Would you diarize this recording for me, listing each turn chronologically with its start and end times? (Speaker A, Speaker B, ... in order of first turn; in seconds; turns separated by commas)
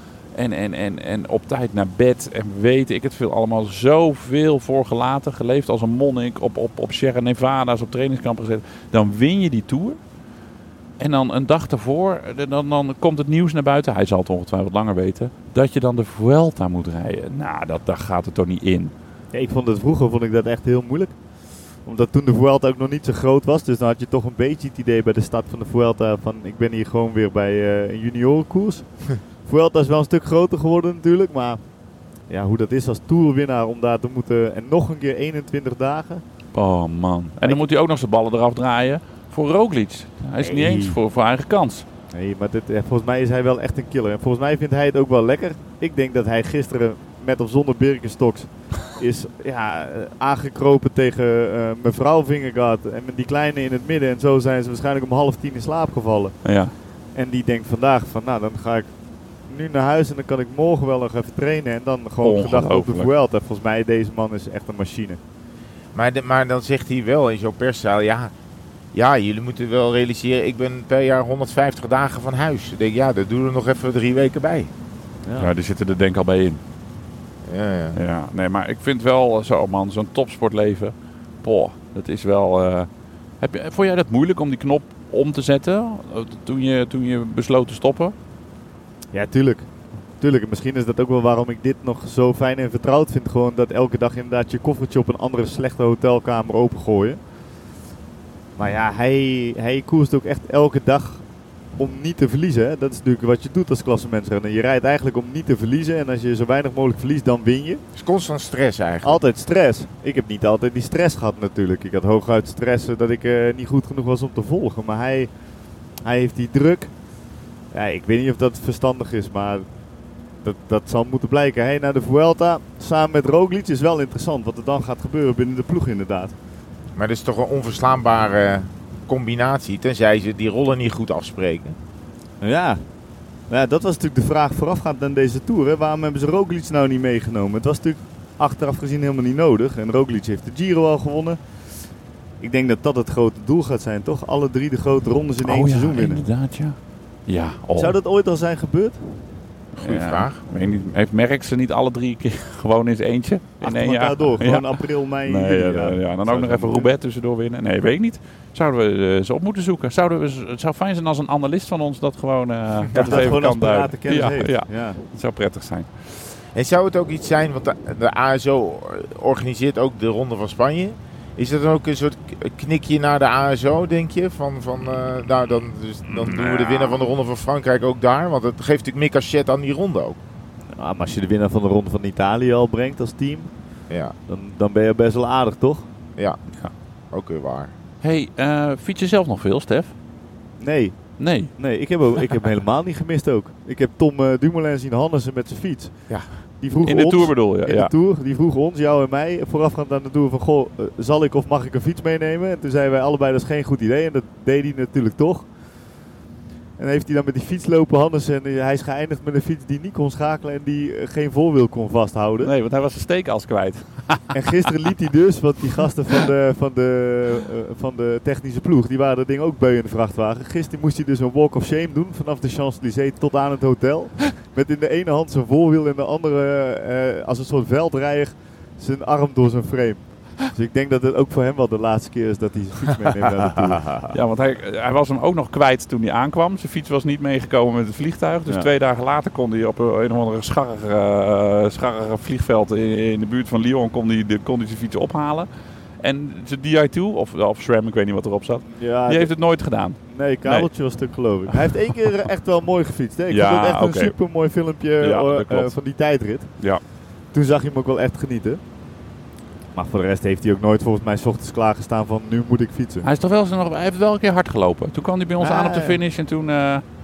Speaker A: 0.3-10.0, Speaker A: 11.0-18.9, Speaker B: 19.3-21.1, Speaker B: 21.8-28.9, Speaker B: 29.4-31.6, Speaker B: 32.3-36.2, Speaker A: 36.5-41.9, Speaker B: 40.4-41.0, Speaker B: 42.1-56.4, Speaker A: 56.4-56.7, Speaker B: 57.1-58.9, Speaker B: 59.5-65.2, Speaker A: 62.2-63.1, Speaker C: 65.9-68.3, Speaker C: 68.9-74.7, Speaker A: 75.4-76.6, Speaker C: 77.4-78.0, Speaker A: 77.9-82.9, Speaker A: 83.4-88.1, Speaker B: 89.1-97.2, Speaker B: 98.6-101.2, Speaker B: 101.8-107.8, Speaker C: 108.0-109.2, Speaker B: 109.0-115.3, Speaker B: 116.0-116.9, Speaker B: 117.7-119.6, Speaker B: 120.4-126.3, Speaker C: 127.0-131.8, Speaker B: 132.4-132.8, Speaker B: 133.5-141.4, Speaker B: 142.4-146.2, Speaker A: 145.4-147.9, Speaker B: 147.8-149.2, Speaker A: 149.7-165.9, Speaker C: 149.8-150.4, Speaker B: 153.6-156.9, Speaker B: 162.9-165.0, Speaker C: 166.5-180.2, Speaker A: 176.1-177.0, Speaker B: 180.8-183.5, Speaker C: 183.9-184.1, Speaker B: 184.3-185.9, Speaker C: 187.1-187.7, Speaker A: 188.0-189.9, Speaker B: 190.6-191.0, Speaker A: 191.2-191.5, Speaker B: 191.5-196.1, Speaker B: 196.6-205.5, Speaker A: 196.8-197.9, Speaker B: 206.8-212.5, Speaker A: 212.4-214.3, Speaker B: 214.3-234.1, Speaker A: 234.1-245.5, Speaker A: 246.0-250.7, Speaker B: 248.7-249.3, Speaker B: 250.1-256.5, Speaker A: 253.3-254.1, Speaker A: 255.0-255.7, Speaker B: 257.3-258.6, Speaker B: 259.7-263.1, Speaker A: 263.0-266.8, Speaker B: 265.4-266.0